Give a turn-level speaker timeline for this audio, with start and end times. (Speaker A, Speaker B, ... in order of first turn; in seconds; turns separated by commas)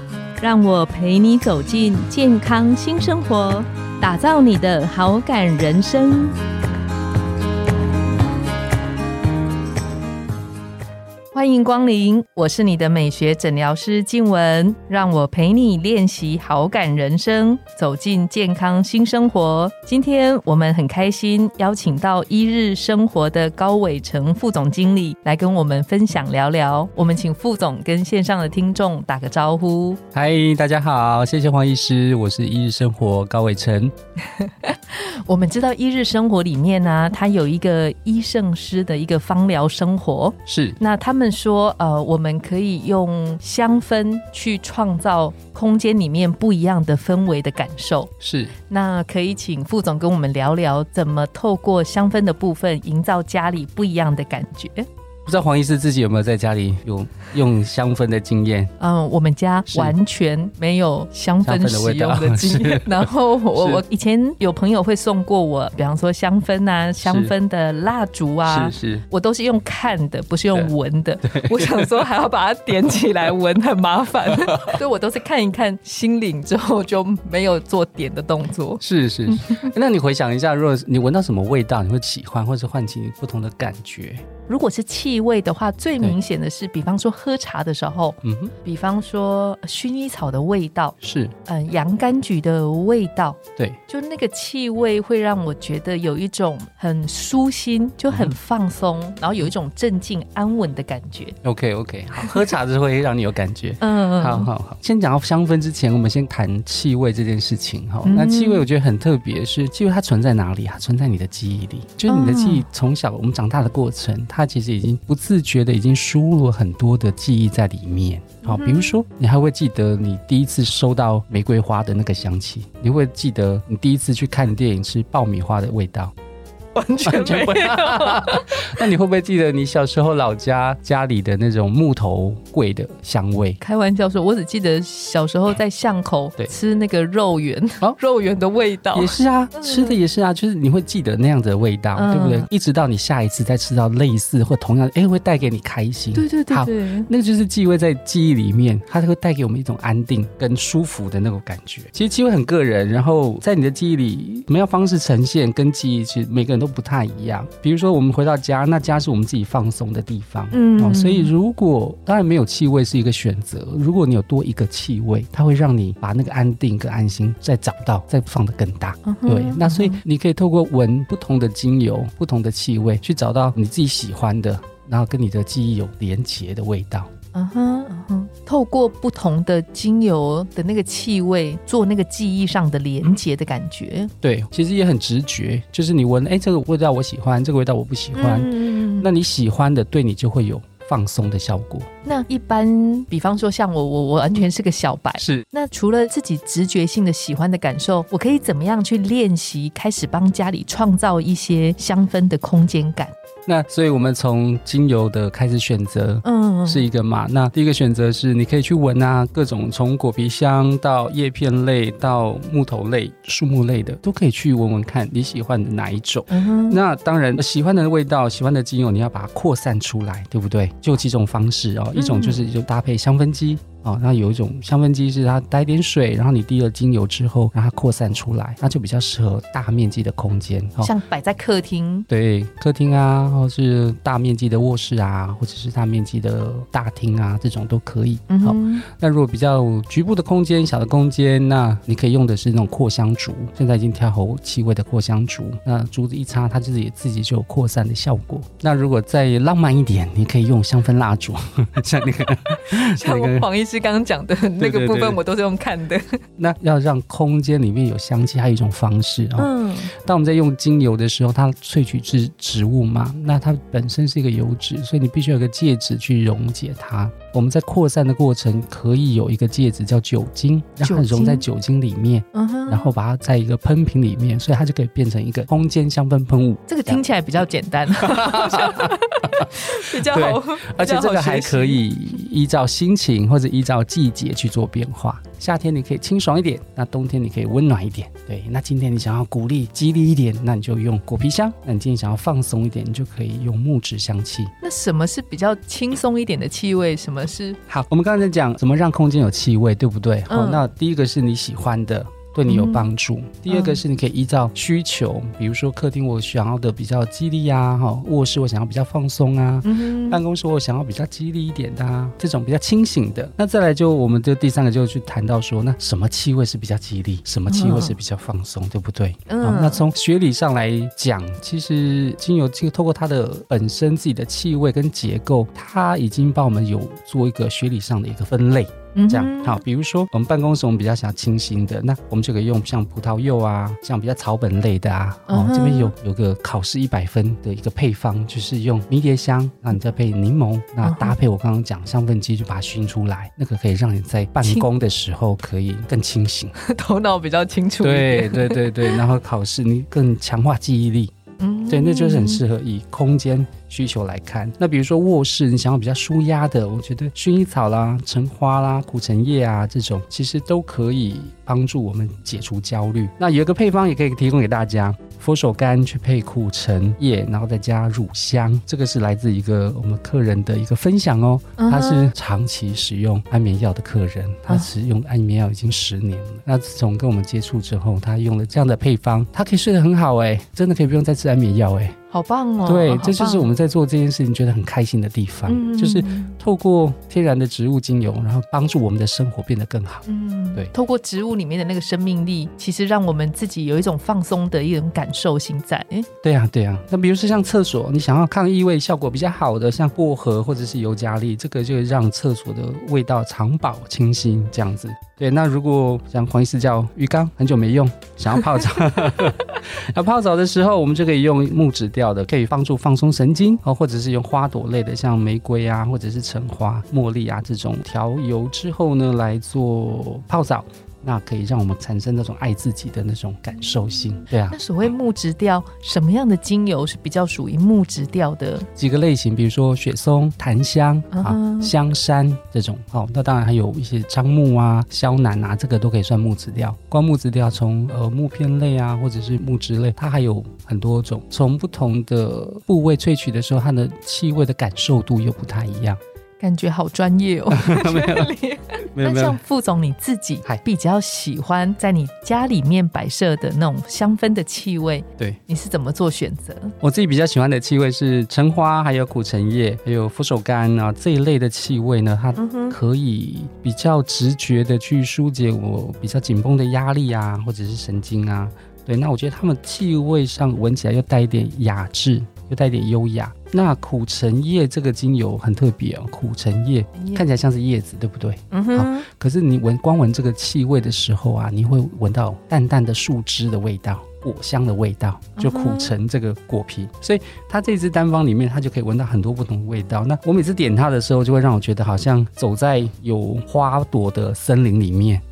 Speaker A: 0.4-6.4, Speaker A: 11.3-30.0, Speaker B: 30.1-33.9, Speaker A: 34.3-48.1, Speaker B: 40.5-40.8, Speaker B: 48.2-48.5, Speaker A: 48.7-54.9, Speaker B: 55.2-58.7, Speaker A: 58.8-79.7, Speaker B: 59.7-60.0, Speaker B: 61.4-63.8, Speaker B: 67.0-67.3, Speaker B: 68.5-69.0, Speaker B: 71.2-71.9, Speaker B: 78.8-84.2, Speaker A: 84.5-101.3, Speaker B: 88.2-88.5, Speaker B: 91.0-91.3, Speaker B: 101.4-126.1, Speaker A: 103.8-104.5, Speaker A: 108.0-108.7, Speaker A: 112.1-112.7, Speaker A: 118.4-119.0, Speaker A: 126.7-128.8, Speaker B: 127.0-133.6, Speaker A: 133.6-140.0, Speaker B: 138.9-177.1, Speaker A: 141.9-142.5, Speaker A: 146.1-147.1, Speaker A: 160.5-161.3, Speaker A: 169.0-170.0, Speaker A: 177.3-184.1, Speaker B: 184.2-191.9, Speaker A: 188.1-189.1, Speaker A: 192.0-203.1, Speaker B: 195.2-195.4, Speaker B: 203.4-230.9, Speaker A: 206.2-206.8, Speaker A: 216.3-216.8, Speaker A: 221.9-222.4, Speaker A: 230.8-232.1, Speaker B: 232.1-253.5, Speaker A: 238.3-238.8, Speaker A: 252.6-256.2, Speaker B: 254.6-255.2, Speaker B: 256.4-277.0, Speaker A: 259.4-259.9, Speaker A: 270.8-271.4, Speaker A: 272.3-272.9, Speaker A: 276.7-281.8, Speaker B: 278.0-294.5, Speaker A: 294.6-297.6, Speaker B: 297.7-346.5, Speaker A: 300.3-300.6, Speaker A: 302.5-302.9, Speaker A: 303.5-303.8, Speaker A: 309.6-310.2, Speaker A: 317.5-317.9, Speaker A: 319.3-319.8, Speaker A: 328.9-329.6, Speaker A: 335.3-335.9, Speaker A: 340.8-341.1, Speaker A: 346.6-349.0, Speaker B: 347.8-351.1, Speaker A: 351.4-352.4, Speaker B: 351.7-381.9, Speaker A: 371.6-372.1, Speaker A: 382.1-383.5, Speaker B: 382.6-390.7, Speaker A: 385.5-386.3, Speaker A: 390.0-396.1, Speaker B: 396.2-424.6, Speaker A: 424.0-428.7, Speaker B: 428.8-446.0, Speaker A: 431.1-431.7, Speaker A: 446.4-456.7, Speaker B: 447.5-448.3, Speaker B: 448.9-449.4, Speaker B: 456.8-495.2, Speaker A: 462.4-462.8, Speaker A: 477.0-477.2, Speaker A: 478.5-479.0, Speaker A: 485.4-485.9